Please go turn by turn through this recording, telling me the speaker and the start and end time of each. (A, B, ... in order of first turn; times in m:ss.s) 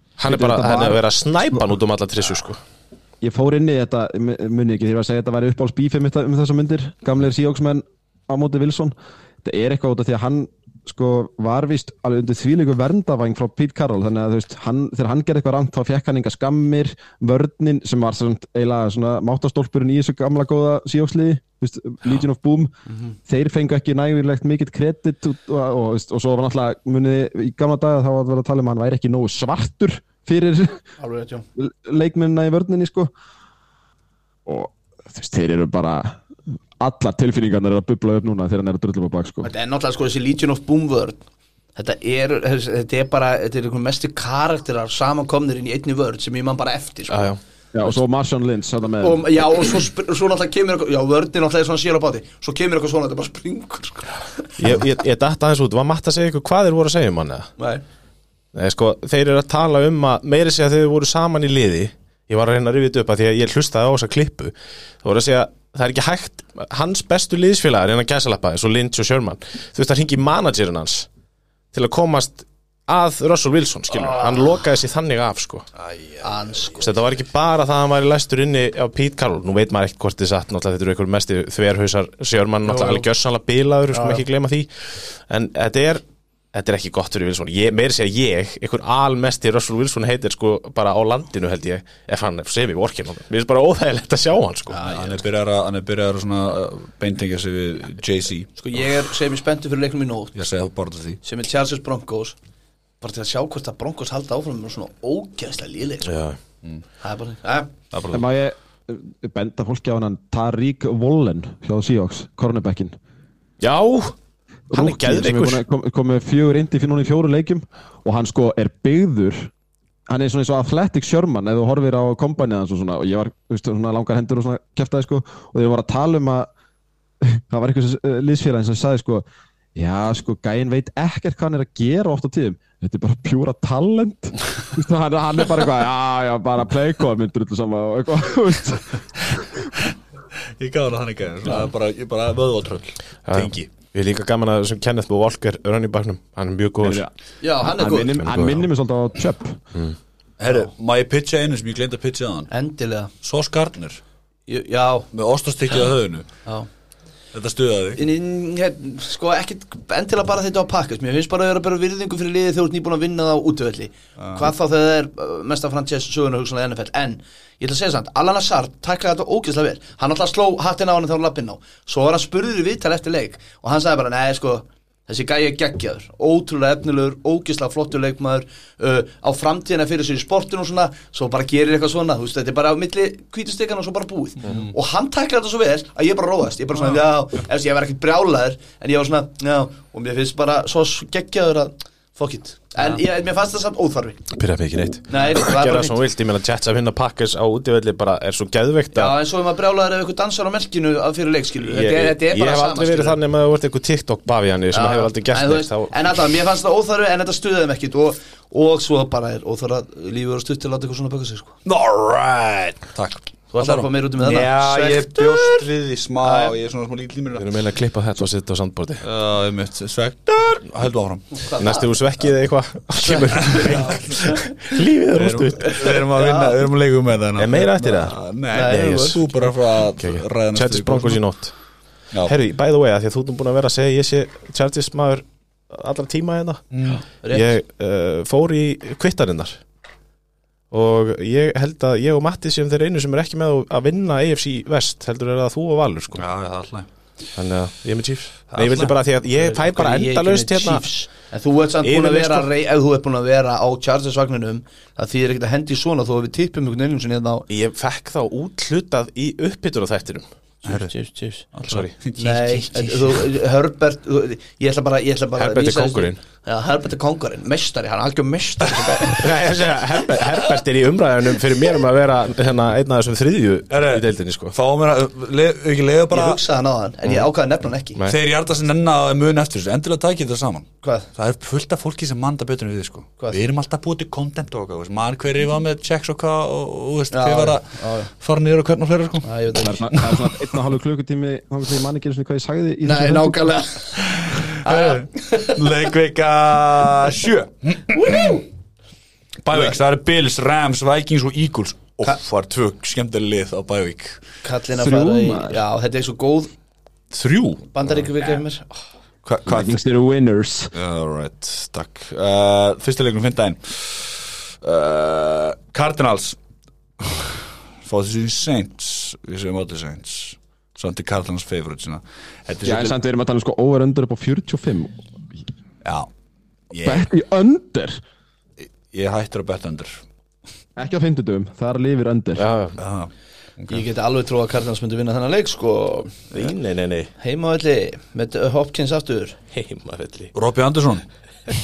0:00.2-0:02.6 A
0:00.3-0:01.0 B
0:03.2-0:22.7 B
0:22.9-0:23.2 C
0:23.3-0:30.8 B
0:31.0-0:31.5 C
0:31.6-0:33.1 B
0:34.5-0:36.2 B
0:36.8-0:39.5 B
0:39.4-0:41.2 C
0:41.8-0:47.3 C
0:47.1-0:47.4 A
0:47.7-0:49.4 B
0:49.0-0:54.5 C
0:54.6-0:57.5 A
0:58.5-1:11.1 A
1:11.7-1:15.6 A
1:13.9-1:14.6 C
1:15.8-1:16.8 D
1:16.2-1:16.9 C
1:16.8-1:26.0 A
1:22.7-1:23.0 C
1:23.9-1:24.2 C
1:26.5-1:34.8 A
1:34.7-1:35.2 C
1:34.8-1:38.6 D
1:38.6-1:40.4 C
1:40.4-1:41.2 D
1:41.2-1:42.4 C
1:43.0-1:46.1 C
1:46.0-1:46.4 A
1:47.0-1:47.7 C
1:47.9-1:48.2 D
1:48.1-1:53.0 B
1:53.6-1:54.2 A
1:54.7-1:59.5 B
1:54.7-1:55.6 A
2:00.1-2:06.5 B
2:07.2-2:19.6 B
2:20.6-2:23.7 D
2:23.3-2:27.0 A
2:26.8-2:27.1 B
2:27.4-2:28.2 C
2:27.6-2:29.6 B
2:28.2-2:28.6 A
2:30.4-2:32.5 D
2:32.5-2:33.1 C
2:33.2-2:34.0 D
2:34.5-2:35.1 C
2:35.1-2:36.3 D
2:37.3-2:38.0 D
2:38.0-3:14.2 C
2:44.2-2:44.5 D
3:14.3-3:19.2 A
3:15.1-3:16.0 C
3:18.9-3:23.2 C
3:21.7-3:25.9 A
3:24.7-3:31.6 C
3:31.6-3:37.5 D
3:33.5-3:35.7 C
3:36.2-3:36.6 C
3:37.4-3:39.0 A
3:39.0-3:41.3 D
3:41.4-3:41.9 C
3:41.6-3:46.0 A
3:43.0-3:44.5 C
3:43.4-3:44.2 D
3:45.2-3:51.2 D
3:45.6-3:46.6 C
3:47.4-3:48.2 A
3:48.5-3:49.3 C
3:50.0-3:51.5 A
3:52.2-3:56.7 A
3:56.7-3:57.0 D
3:57.2-3:57.5 C
3:57.3-3:59.6 A
4:00.7-4:06.2 A
4:06.2-4:06.9 D
4:07.4-4:10.8 A
4:08.6-4:08.9 D
4:09.4-4:17.5 C
4:11.8-4:12.5 A
4:17.5-4:20.3 A
4:20.6-4:20.9 D
4:20.6-4:21.5 C
4:21.5-4:23.2 D
4:21.7-4:21.9 A
4:22.2-4:29.3 C
4:25.4-4:26.2 A
4:29.1-4:34.6 A
4:33.7-4:36.4 D
4:36.1-4:38.0 C
4:38.1-4:49.3 D
4:40.8-4:41.1 C
4:47.1-4:48.1 C
4:49.2-4:49.9 C
4:49.6-4:53.6 B
4:50.0-4:50.2 D
4:52.8-4:55.7 C
4:54.2-4:58.5 D
4:58.0-4:58.3 C
4:59.4-5:04.2 D
5:04.4-5:06.5 C
5:04.8-5:05.6 B
5:07.1-5:07.7 D
5:07.7-5:08.7 C
5:09.2-5:09.8 D
5:09.5-5:10.7 B
5:10.8-5:16.4 D
5:17.0-5:23.0 D
5:22.6-5:25.0 B
5:25.8-5:26.1 D
5:26.7-5:27.1 D
5:26.8-5:28.0 B
5:28.6-5:30.0 D
5:30.8-5:32.5 B
5:32.4-5:32.8 A
5:32.8-5:33.8 D
5:33.7-5:36.3 C
5:36.3-5:37.1 A
5:37.2-5:39.4 C
5:39.5-5:40.3 A
5:40.4-5:41.0 D